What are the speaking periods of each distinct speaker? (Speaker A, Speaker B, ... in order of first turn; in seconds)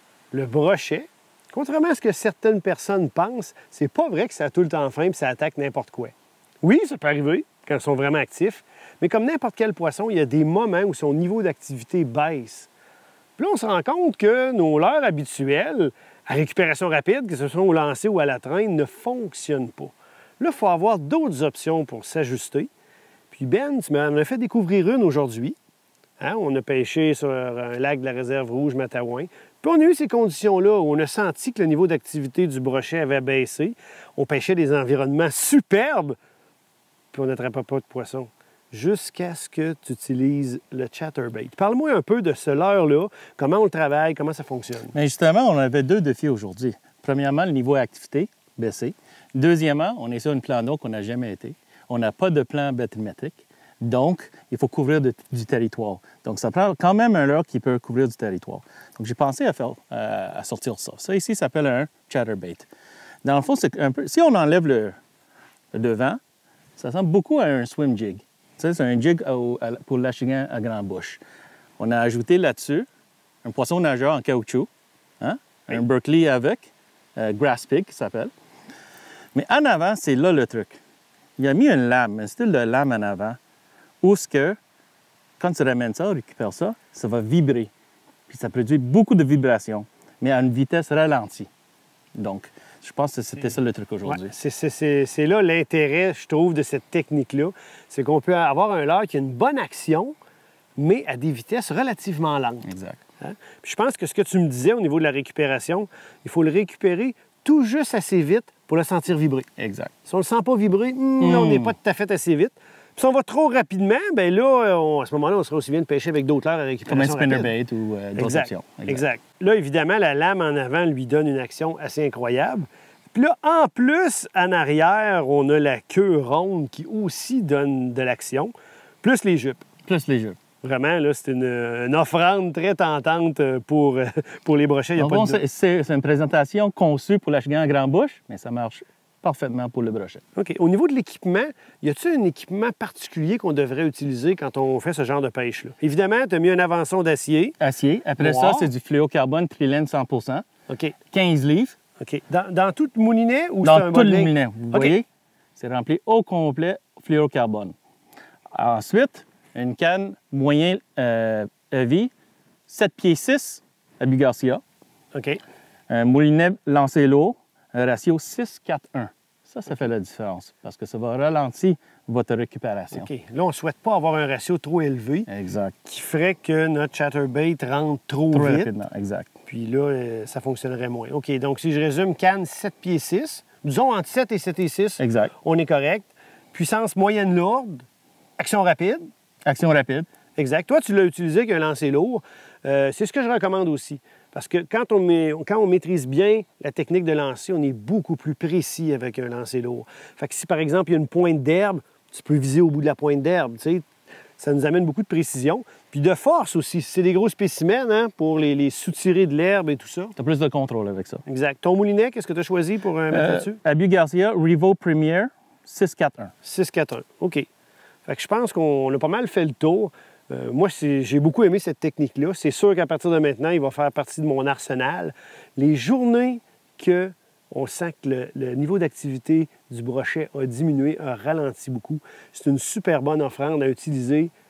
Speaker A: 0.3-12.7, 13.4-22.7, 23.3-25.6, 26.2-36.2, 37.1-45.0, 94.1-100.2, 100.8-102.7, 103.2-109.5, 110.0-117.5, 118.2-129.7, 130.6-135.4, 140.4-147.6, 148.2-148.7, 150.7-151.0, 152.0-155.0, 165.1-165.4, 172.9-175.3, 175.8-178.7, 179.5-187.9, 188.4-189.1, 190.4-203.9, 204.4-210.2, 211.3-213.6, 216.4-217.5, 218.1-234.3
Speaker B: 44.9-62.7, 63.2-65.0, 65.7-66.2, 66.8-71.2, 71.8-72.9, 73.4-74.7, 75.2-78.3, 79.3-80.8, 81.4-83.4, 84.0-84.6, 85.4-87.7, 88.3-91.5, 92.2-94.3, 102.7-103.0, 109.6-109.9, 111.2-111.7, 116.9-119.0, 129.9-130.4, 135.0-140.2, 147.6-150.5, 151.1-151.8, 153.6-155.1, 155.6-157.8, 158.5-162.1, 162.7-164.6, 165.9-173.1, 175.3-175.8, 178.3-179.3, 185.0-185.3, 189.4-190.1, 210.2-211.2, 213.1-216.3